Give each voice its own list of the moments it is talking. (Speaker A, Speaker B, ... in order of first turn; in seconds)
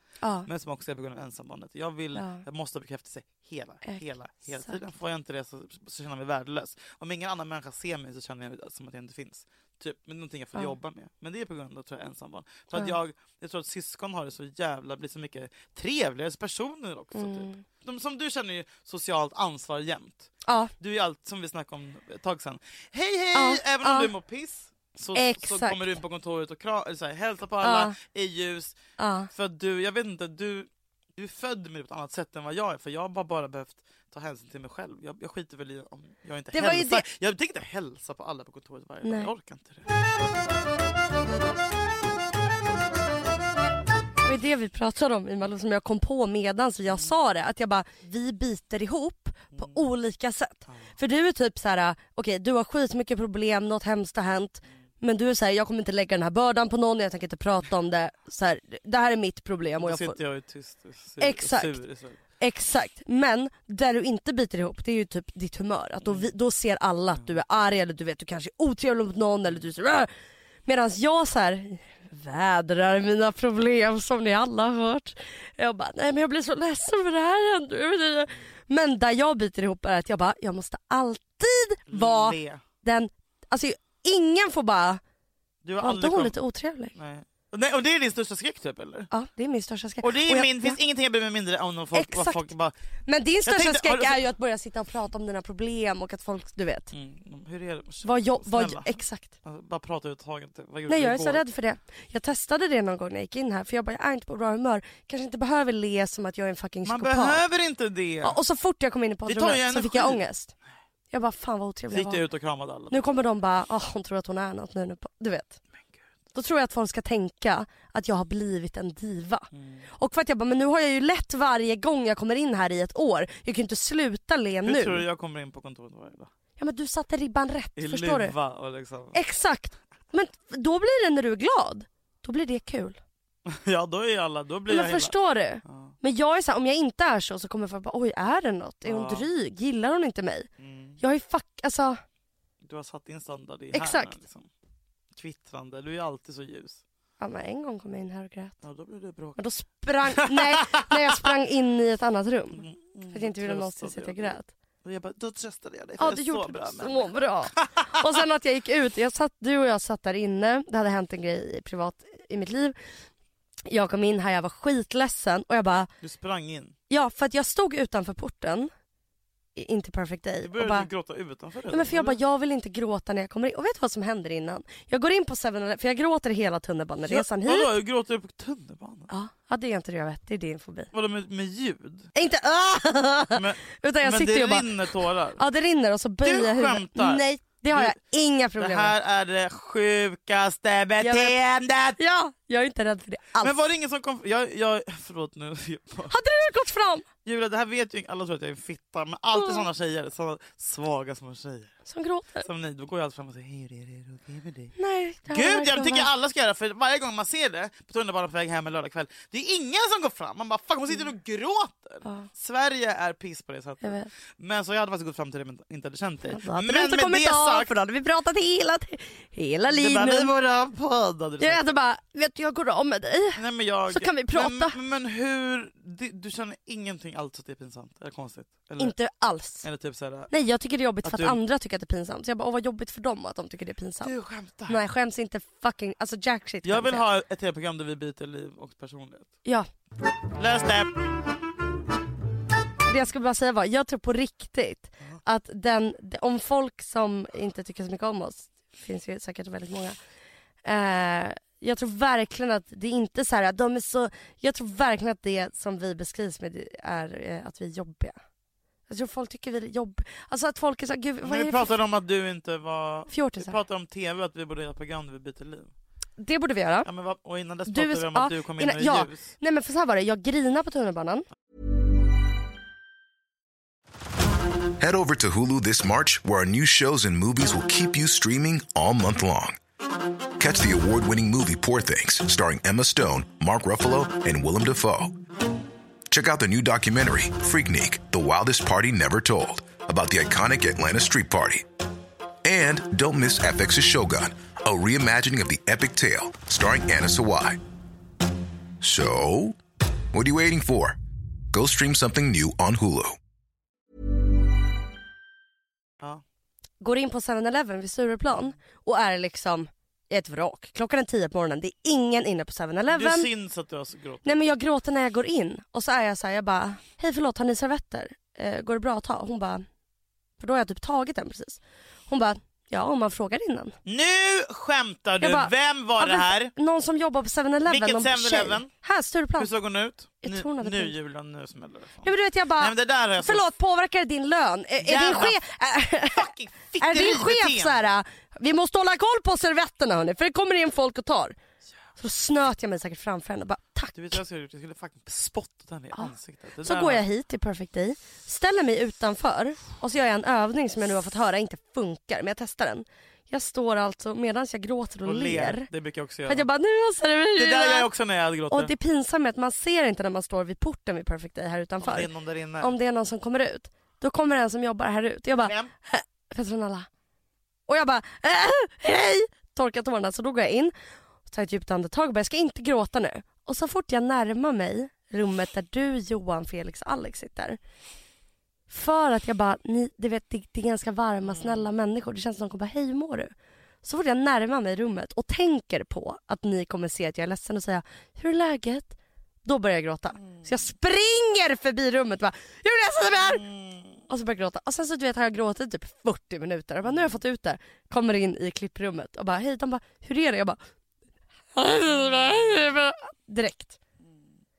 Speaker A: 0.2-0.5, 2.1-2.4, 17.1-17.6, 20.4-20.7, 23.3-24.1, 25.1-25.9, 27.6-27.9, 29.0-29.3, 36.5-37.0, 39.0-39.3, 44.2-60.2, 61.2-61.8, 62.4-70.1, 70.7-85.0, 85.8-86.9, 89.1-90.8, 91.9-92.5, 93.1-96.9, 98.0-99.3, 100.9-107.4, 108.2-110.5, 111.1-112.2, 112.9-115.6, 116.3-125.0, 126.6-128.3, 129.1-133.0, 134.7-140.5, 141.0-142.0, 143.7-144.2, 147.2-148.6, 149.4-154.5, 156.0-162.8, 163.7-165.9, 166.9-168.7, 169.6-170.9, 171.7-177.7, 179.1-180.9, 182.1-184.8, 185.4-188.9, 191.0-191.4, 192.0-193.6, 196.1-197.1, 199.4-199.6, 201.9-202.5, 204.8-206.1, 213.8-214.1, 216.3-220.3, 221.4-224.8, 228.8-229.7, 230.3-234.1, 234.7-237.0, 242.9-249.9, 250.6-258.2, 258.9-261.7, 263.1-263.6, 266.2-266.9, 267.7-271.2, 306.8-313.3, 314.2-319.6, 320.4-323.8, 325.2-329.5, 330.2-330.9, 332.0-341.4, 342.0-344.1, 345.9-355.7, 356.3-357.9, 358.5-362.1, 362.6-366.9, 367.7-370.7, 371.2-377.6, 378.7-383.3, 383.8-393.4, 394.1-400.6, 401.6-403.8
Speaker B: 0.5-28.8, 29.3-39.9, 49.5-49.8, 50.7-50.9, 59.8-62.2, 66.0-66.3, 81.9-82.6, 85.6-86.3, 86.9-89.1, 90.0-92.7, 93.4-94.2, 96.9-101.4, 106.8-108.4, 109.3-110.2, 111.9-113.1, 119.5-119.9, 124.6-126.3, 127.8-129.2, 133.4-135.9, 138.8-139.3, 140.6-141.0, 142.6-144.5, 145.1-146.8, 148.6-149.4, 150.1-151.3, 152.5-158.1, 166.0-166.8, 170.4-172.2, 177.0-179.1, 180.9-182.1, 183.3-185.4, 186.2-187.9, 188.6-192.0, 193.4-196.2, 197.2-201.7, 202.4-204.7, 205.3-217.7, 219.7-221.7, 223.4-228.9, 229.6-230.3, 231.0-231.4, 234.0-234.8, 236.6-239.3, 240.4-240.9, 261.2-265.7, 266.9-269.3, 312.9-314.4, 323.9-326.5, 327.6-328.7, 329.4-333.5, 334.8-335.4, 336.1-337.8, 343.9-347.0, 355.1-356.5, 357.4-358.7, 361.8-362.7, 365.4-365.7, 381.2-381.6, 393.1-394.0, 396.9-397.1, 402.0-402.6
Speaker C: 274.8-279.6, 280.4-285.1, 286.1-291.6, 292.4-297.6, 298.8-299.6, 300.1-301.0, 301.5-303.2